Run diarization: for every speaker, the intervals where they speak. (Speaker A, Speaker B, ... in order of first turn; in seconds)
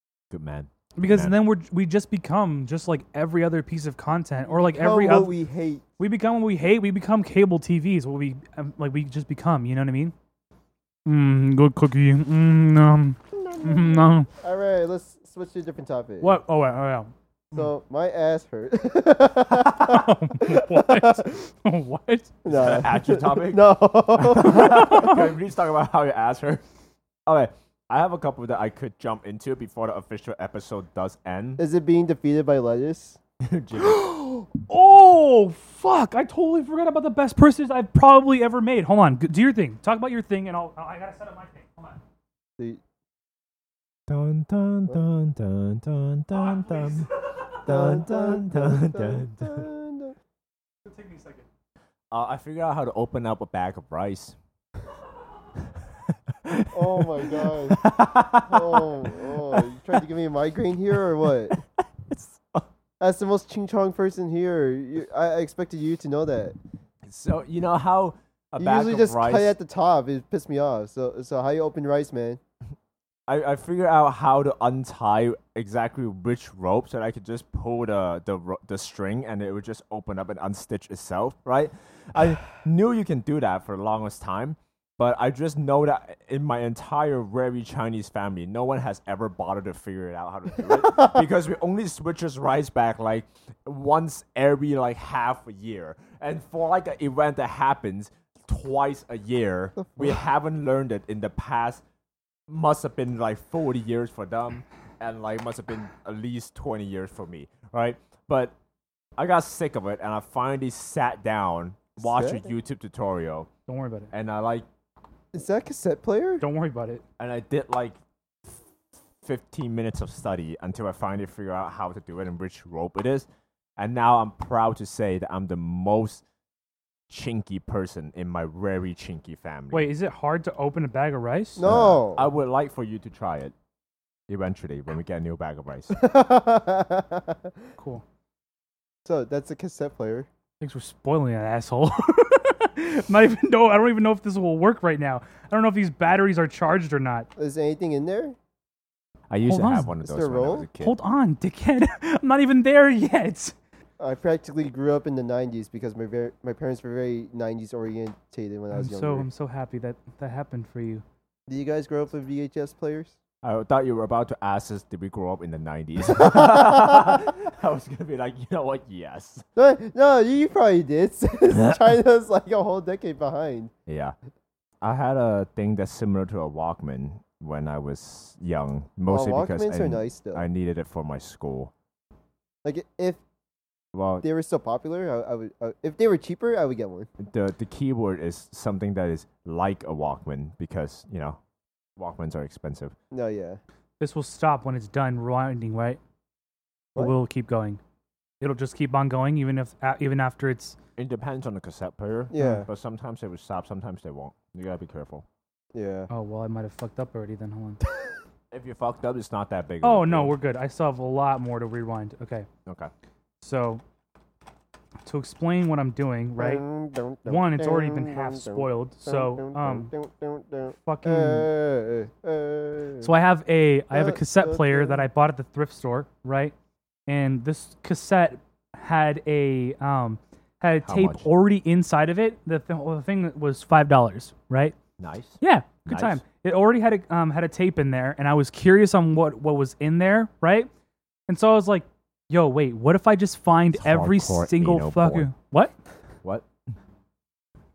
Speaker A: 0.3-1.4, 22.5-23.7, 24.2-26.6, 27.3-31.6, 33.4-34.1, 44.1-47.1, 47.6-49.6, 52.1-54.4, 56.5-59.7, 61.5-62.7, 67.1-69.5, 73.3-101.8, 102.5-108.5, 109.2-113.5, 114.1-114.7, 117.2-118.6, 119.2-123.3, 123.8-126.2, 127.1-129.9, 131.6-133.5, 134.3-136.0, 149.3-151.0, 163.4-169.4, 173.9-174.2, 174.8-181.7, 183.9-184.2, 187.2-191.4, 192.0-192.9, 201.0-205.2, 208.5-210.3, 212.7-212.9, 230.9-231.3, 235.0-236.2, 243.7-245.3
Speaker B: 1.0-5.3, 6.0-10.1, 11.1-14.3, 16.2-17.1, 19.7-22.3, 24.4-25.3, 33.8-42.0, 46.3-47.5, 50.9-51.5, 113.7-114.1, 116.4-117.0, 129.7-131.7, 137.8-138.0, 140.6-147.3, 149.4-149.9, 150.8-153.6, 158.7-161.0, 194.0-196.0, 197.0-197.8, 198.4-200.8, 202.4-202.6, 206.1-207.8, 209.8-212.5, 213.4-213.8, 215.1-216.6, 217.3-219.9, 220.7-221.5, 223.0-226.5, 227.1-234.8, 235.4-240.7, 241.3-245.7
Speaker C: 4.5-5.8, 13.3-16.4, 17.5-21.2, 22.4-25.1, 31.6-33.2, 47.7-50.2, 56.7-57.8, 58.4-61.5, 63.0-66.6, 68.6-72.4, 112.0-112.5, 115.3-116.4, 131.6-132.3, 135.9-137.5, 139.1-140.3, 147.4-148.4, 150.0-150.7, 154.0-159.3, 161.5-163.2, 166.1-167.2, 169.6-173.7, 179.1-180.4, 182.6-183.2, 184.2-187.1, 193.1-193.6, 202.3-202.7, 205.7-206.1, 216.4-223.1, 223.9-225.1